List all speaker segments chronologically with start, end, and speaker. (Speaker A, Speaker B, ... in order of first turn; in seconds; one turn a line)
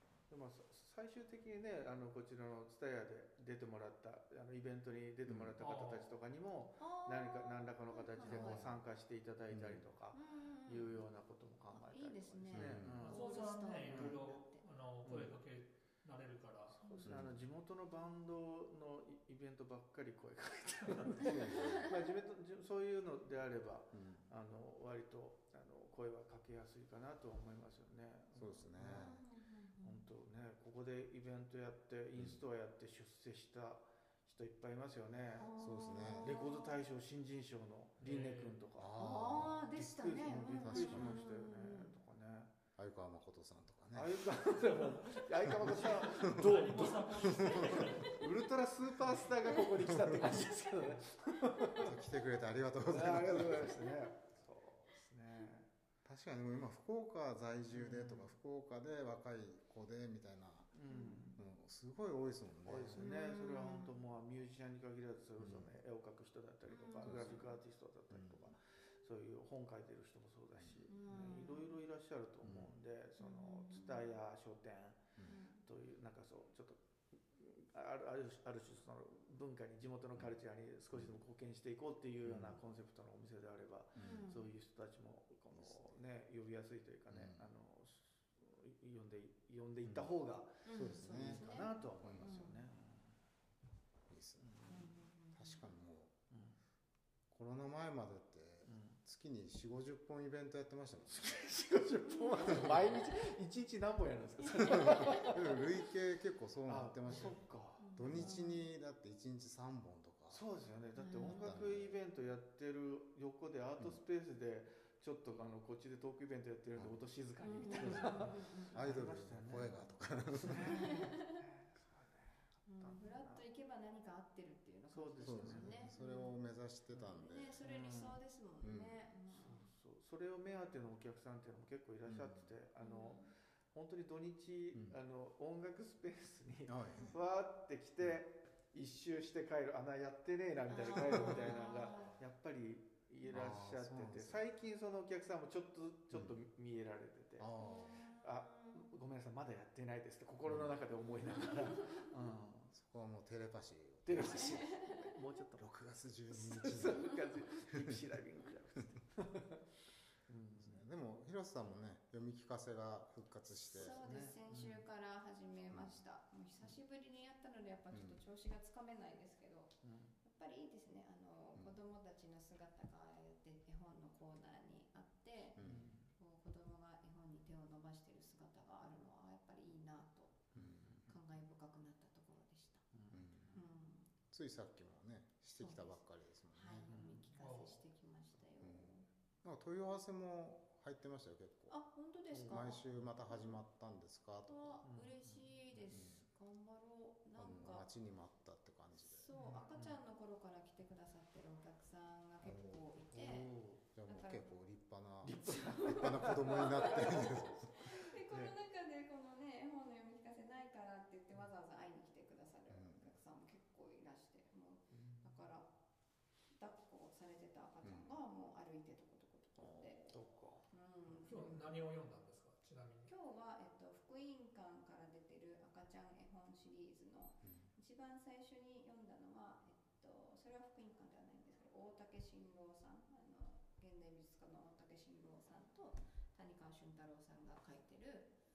Speaker A: 0.3-13.3
Speaker B: 5.3-5.5
Speaker C: 5.6-6.2
Speaker D: 6.8-8.7
Speaker B: 8.2-8.8
Speaker B: 9.5-9.8
Speaker D: 10.1-11.0
Speaker D: 11.7-14.7
Speaker B: 12.5-13.1
Speaker C: 13.0-16.8
Speaker A: 15.1-15.3
Speaker A: 16.7-29.1
Speaker D: 16.8-17.2
Speaker B: 17.0-17.4
Speaker B: 21.1-21.9
Speaker D: 21.4-21.9
Speaker B: 23.9-24.3
Speaker B: 28.4-29.2
Speaker D: 28.9-30.1
Speaker A: 29.8-35.5
Speaker B: 32.2-32.4
Speaker D: 35.4-36.8
Speaker B: 35.6-36.4
Speaker A: 36.2-42.5
Speaker C: 38.0-38.6
Speaker B: 38.8-39.6
Speaker D: 39.0-42.0
Speaker B: 40.6-41.2
Speaker B: 42.8-44.4
Speaker A: 43.9-52.0
Speaker B: 45.5-46.6
Speaker C: 45.7-48.2
Speaker B: 47.2-47.9
Speaker B: 49.8-50.4
Speaker B: 51.8-53.9
Speaker A: 52.9-55.7
Speaker B: 56.0-60.7
Speaker A: 57.7-58.3
Speaker A: 60.7-61.4
Speaker D: 60.9-61.4
Speaker B: 61.4-63.2
Speaker A: 62.7-75.1
Speaker D: 63.0-64.0
Speaker B: 65.4-65.7
Speaker D: 66.7-67.5
Speaker B: 67.0-67.4
Speaker B: 68.1-68.5
Speaker D: 70.9-71.8
Speaker B: 72.4-72.7
Speaker D: 73.2-74.1
Speaker D: 75.2-75.6
Speaker A: 75.6-93.2
Speaker B: 82.2-82.6
Speaker B: 84.0-84.3
Speaker D: 84.0-84.5
Speaker B: 85.5-86.0
Speaker B: 87.1-87.5
Speaker B: 89.8-90.1
Speaker D: 90.6-92.7
Speaker B: 90.7-92.4
Speaker B: 94.1-96.1
Speaker A: 94.4-94.9
Speaker D: 94.7-95.7
Speaker A: 96.3-96.6
Speaker B: 97.3-101.3
Speaker A: 98.7-99.0
Speaker A: 101.1-105.6
Speaker D: 102.1-102.5
Speaker B: 102.5-102.8
Speaker B: 104.6-107.4
Speaker A: 106.7-108.4
Speaker D: 107.8-108.7
Speaker B: 108.0-110.4
Speaker A: 110.3-123.4
Speaker D: 111.0-111.6
Speaker B: 111.2-112.0
Speaker D: 117.4-118.8
Speaker B: 117.7-120.9
Speaker D: 120.5-121.4
Speaker D: 122.7-126.4
Speaker A: 124.9-125.9
Speaker B: 125.2-127.6
Speaker D: 127.1-129.7
Speaker A: 127.6-128.2
Speaker B: 128.6-129.0
Speaker A: 129.3-147.5
Speaker B: 132.1-132.5
Speaker D: 132.8-133.3
Speaker B: 136.7-137.2
Speaker D: 140.7-142.2
Speaker B: 143.3-144.4
Speaker B: 147.4-148.0
Speaker D: 147.6-148.9
Speaker A: 148.1-152.7
Speaker B: 150.5-150.8
Speaker D: 151.8-152.1
Speaker B: 152.7-154.6
Speaker A: 154.1-155.7
Speaker D: 154.3-155.1
Speaker B: 155.6-157.2
Speaker A: 156.3-159.6
Speaker A: 160.3-160.8
Speaker B: 160.6-164.1
Speaker D: 163.7-175.6
Speaker A: 163.8-164.8
Speaker B: 167.9-168.2
Speaker A: 169.8-170.2
Speaker B: 175.6-175.9
Speaker A: 175.6-176.1
Speaker D: 176.2-180.4
Speaker A: 180.5-181.0
Speaker B: 180.6-181.1
Speaker D: 181.1-182.9
Speaker A: 182.9-183.6
Speaker B: 183.1-183.6
Speaker D: 183.5-184.1
Speaker B: 184.3-186.9
Speaker D: 185.6-186.0
Speaker D: 186.5-189.1
Speaker A: 186.9-187.3
Speaker C: 187.4-187.8
Speaker B: 188.6-191.8
Speaker D: 191.7-193.6
Speaker A: 192.3-193.1
Speaker B: 192.4-194.8
Speaker D: 194.5-197.9
Speaker A: 194.8-195.5
Speaker B: 195.9-196.2
Speaker B: 197.4-199.3
Speaker D: 199.0-203.5
Speaker A: 199.3-200.0
Speaker C: 199.4-199.7
Speaker B: 202.4-207.7
Speaker A: 203.4-203.8
Speaker D: 204.1-204.5
Speaker A: 205.2-208.5
Speaker D: 205.4-215.7
Speaker B: 212.7-213.1
Speaker A: 214.9-215.4
Speaker D: 216.6-220.1
Speaker B: 217.8-218.1
Speaker B: 219.6-220.2
Speaker A: 220.1-220.7
Speaker D: 220.7-221.7
Speaker C: 221.2-223.1
Speaker D: 223.1-238.3
Speaker B: 227.4-227.7